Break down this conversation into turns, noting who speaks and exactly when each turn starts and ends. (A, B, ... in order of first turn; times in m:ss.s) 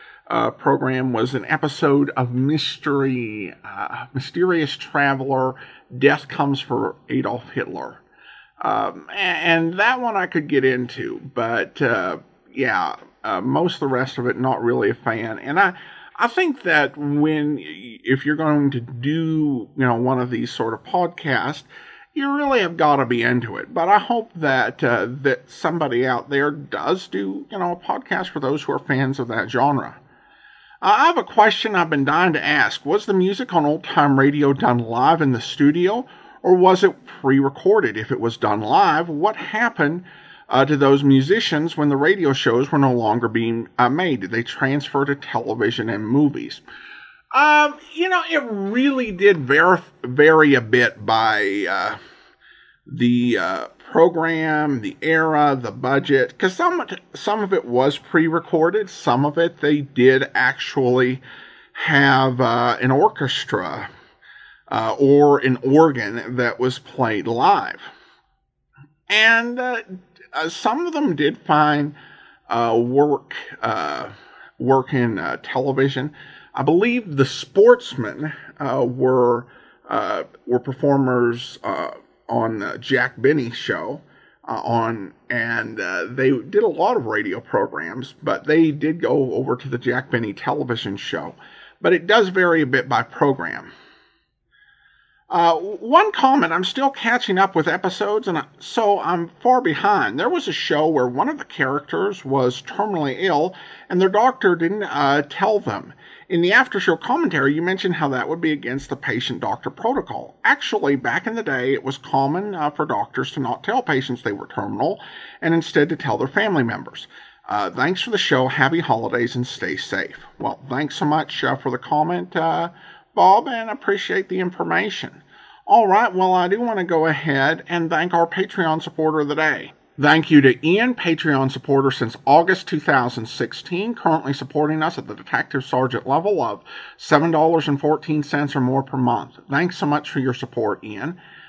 0:00.3-0:08.0 A
0:08.6-0:30.0 A
0:30.8-0:46.6 A
0:47.3-0:52.0 A
0:52.9-1:01.2 A
1:01.7-1:03.9 A
1:04.7-1:07.9 A
1:09.1-1:12.0 A
1:12.5-1:33.7 A
1:35.3-2:21.2 A